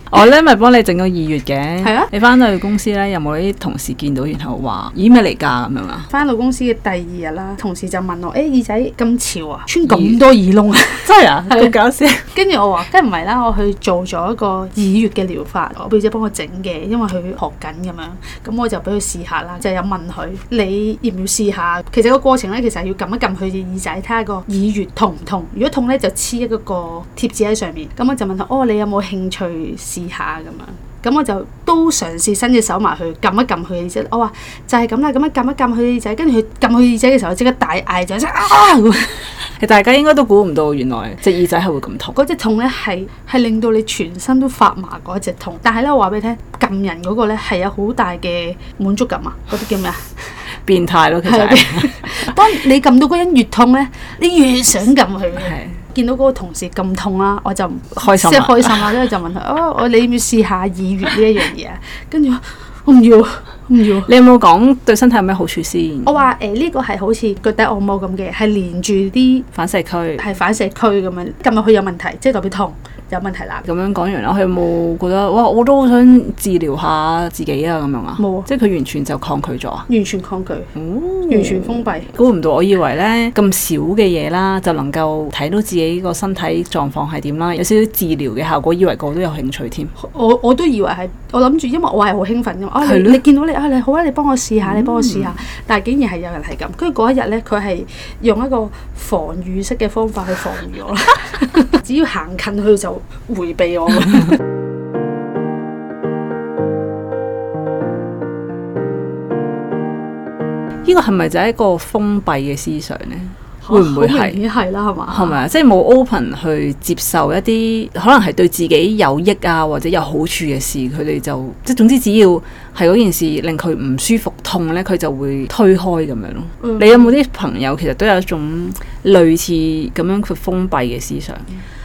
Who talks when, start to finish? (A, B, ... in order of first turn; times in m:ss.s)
0:00.1-0:06.1 A
0:01.8-0:02.1 B
0:06.1-0:11.7 B
0:09.8-0:10.2 A
0:11.0-0:12.3 A
0:12.3-0:39.3 B
0:39.6-0:42.2 A
0:42.1-0:50.0 B
0:50.6-0:52.4 A
0:51.2-1:04.1 B
0:55.4-0:55.8 A
0:57.9-0:59.0 A
1:03.9-1:06.2 A
1:06.0-1:09.4 B
1:09.5-1:10.3 A
1:10.2-1:13.6 B
1:13.6-1:19.9 A
1:18.2-1:18.5 B
1:19.9-1:20.7 B
1:20.7-1:29.9 A
1:21.3-1:22.1 B
1:30.0-1:44.4 B
1:32.8-1:33.2 A
1:34.6-1:35.4 A
1:50.8-1:54.4 A
1:53.6-1:55.4 B
1:55.1-2:11.4 A
2:06.6-2:07.1 B